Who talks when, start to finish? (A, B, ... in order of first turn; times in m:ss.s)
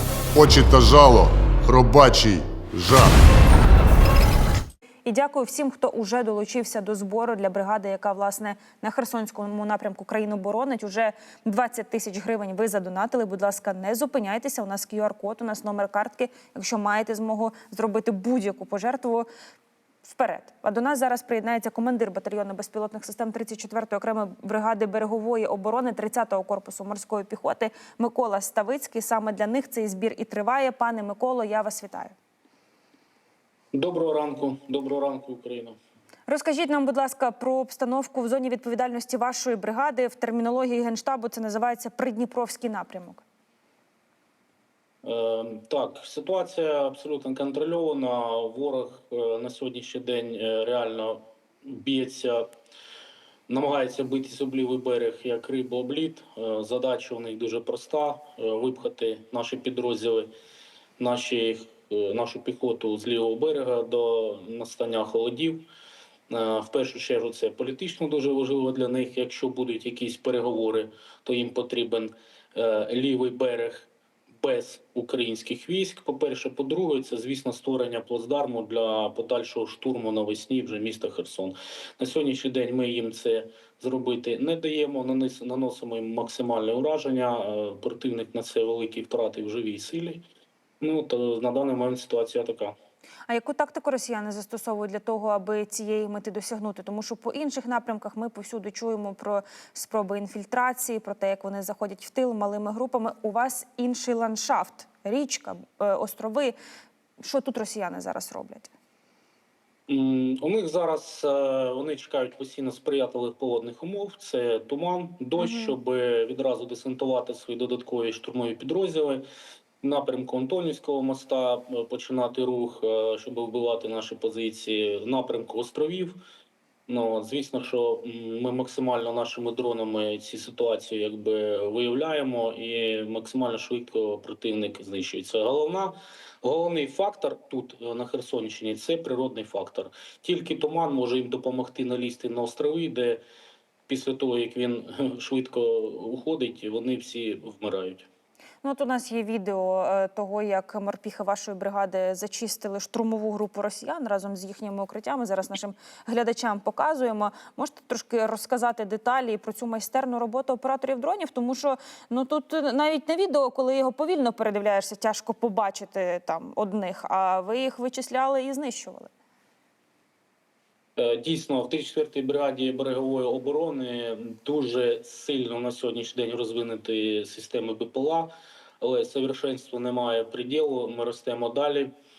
0:00.3-0:03.1 A
0:05.0-0:19.3 B
0:20.0-0:32.2 B
0:33.7-0:35.8 C
0:36.3-0:43.2 B
0:45.0-0:52.4 C
0:53.5-1:00.3 C
1:01.0-1:05.6 C
1:06.3-1:13.9 C
1:14.4-1:30.2 C
1:30.8-1:32.8 C
1:33.3-1:46.6 B
1:47.2-1:48.7 B
1:49.9-1:59.2 C
1:55.4-1:55.8 B
1:59.8-2:06.2 C
2:06.9-2:23.2 C
2:23.9-2:28.1 C
2:28.6-2:49.1 B
2:51.0-3:01.9 C